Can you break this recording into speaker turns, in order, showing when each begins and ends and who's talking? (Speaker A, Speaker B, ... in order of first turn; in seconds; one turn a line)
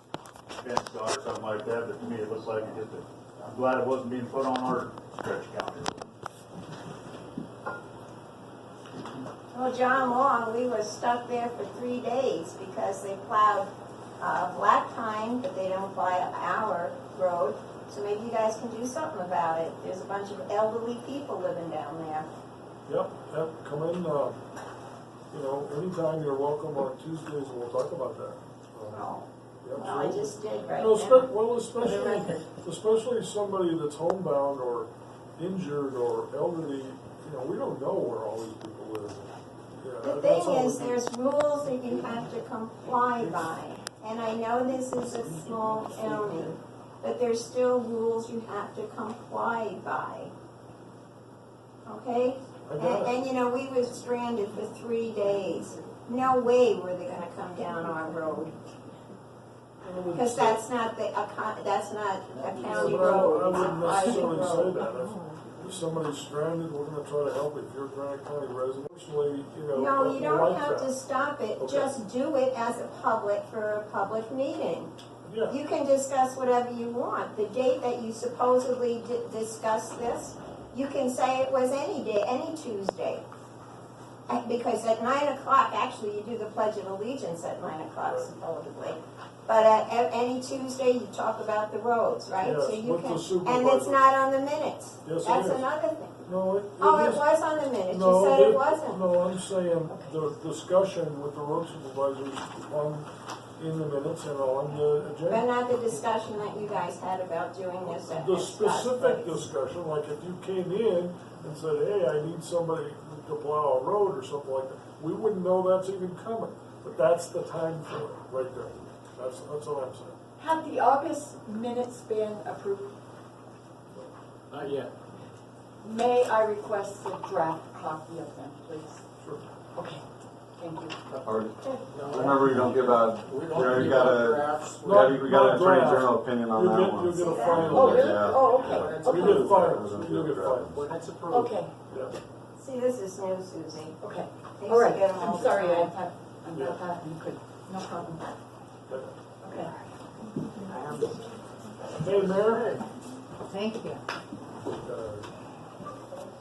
Speaker A: 0.6-6.1
Speaker B: 9.5-13.7
Speaker B: 14.2-22.3
Speaker C: 22.9-24.4
Speaker C: 25.3-29.1
Speaker C: 29.6-41.0
Speaker B: 29.7-32.5
Speaker B: 40.0-50.3
Speaker C: 43.2-43.5
Speaker C: 45.1-46.5
Speaker B: 51.8-58.5
Speaker C: 52.6-53.2
Speaker C: 59.8-60.6
Speaker B: 60.1-64.9
Speaker D: 62.4-63.6
Speaker C: 62.7-70.9
Speaker B: 69.7-74.9
Speaker C: 71.6-71.9
Speaker C: 75.2-75.6
Speaker B: 75.5-83.2
Speaker B: 84.3-96.2
Speaker C: 92.4-94.0
Speaker C: 95.0-95.7
Speaker C: 96.2-97.3
Speaker B: 96.8-99.0
Speaker C: 97.8-105.5
Speaker B: 105.2-109.4
Speaker C: 108.0-120.2
Speaker E: 120.4-123.0
Speaker D: 124.5-124.9
Speaker E: 125.8-129.0
Speaker C: 129.2-129.4
Speaker E: 129.7-130.0
Speaker E: 130.6-131.1
Speaker F: 131.2-140.8
Speaker D: 131.9-135.1
Speaker C: 134.8-138.2
Speaker B: 137.1-138.2
Speaker E: 137.6-139.7
Speaker D: 138.1-139.2
Speaker C: 139.1-140.7
Speaker D: 140.7-141.6
Speaker E: 141.3-141.7
Speaker C: 141.9-142.1
Speaker B: 142.6-144.0
Speaker E: 144.0-148.3
Speaker B: 144.6-145.9
Speaker C: 148.9-149.1
Speaker E: 149.4-149.7
Speaker E: 150.7-151.0
Speaker D: 150.7-151.1
Speaker C: 152.0-152.7
Speaker D: 152.0-152.8
Speaker C: 154.7-155.3